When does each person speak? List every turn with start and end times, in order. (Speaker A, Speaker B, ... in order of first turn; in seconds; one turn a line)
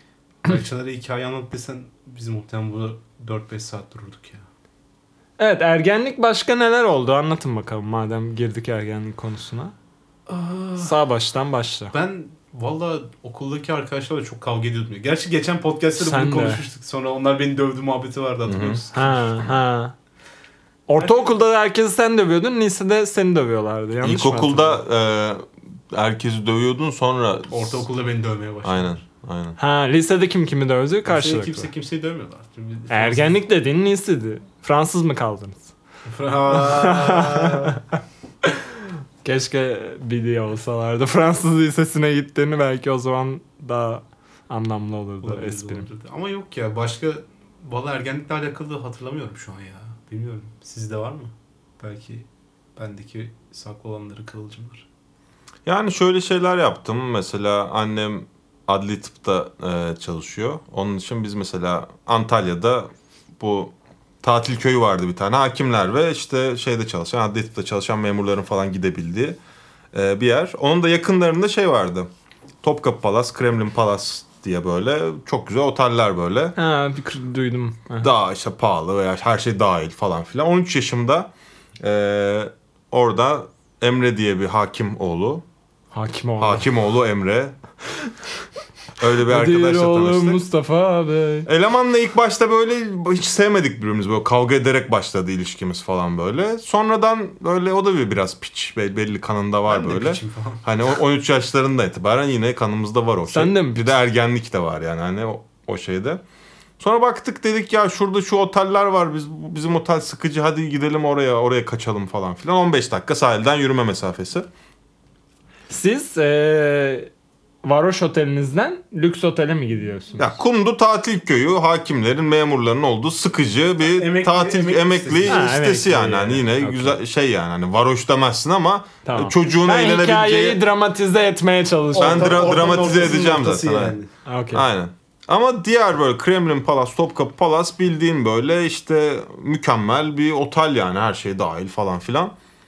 Speaker A: 0.4-4.4
Speaker B: 5.4-9.7
Speaker A: 10.3-10.9
Speaker B: 10.8-11.9
Speaker A: 11.9-19.4
Speaker B: 16.0-16.6
Speaker C: 18.4-18.8
Speaker B: 18.9-19.9
Speaker B: 20.9-24.8
Speaker A: 21.0-21.3
Speaker C: 24.0-27.8
Speaker A: 27.5-29.0
Speaker C: 28.6-29.6
Speaker B: 29.6-31.7
Speaker A: 31.1-33.4
Speaker B: 32.9-35.7
Speaker A: 36.0-37.8
Speaker B: 36.5-37.8
Speaker B: 39.2-45.9
Speaker A: 45.2-54.8
Speaker C: 55.6-69.4
Speaker C: 69.9-72.1
Speaker C: 72.6-76.5
Speaker B: 76.6-78.1
Speaker C: 78.0-85.4
Speaker B: 85.9-86.7
Speaker C: 86.4-87.5
Speaker C: 89.0-90.4
Speaker B: 89.3-91.5
Speaker C: 91.5-106.2
Speaker A: 99.7-100.6
Speaker B: 103.3-103.9
Speaker C: 106.8-114.5
Speaker B: 115.7-117.1
Speaker B: 117.6-120.3
Speaker C: 120.2-130.6
Speaker A: 123.8-126.5
Speaker B: 125.2-126.9
Speaker B: 129.1-132.5
Speaker A: 131.9-134.1
Speaker C: 132.0-133.9
Speaker B: 134.2-134.7
Speaker C: 134.5-142.3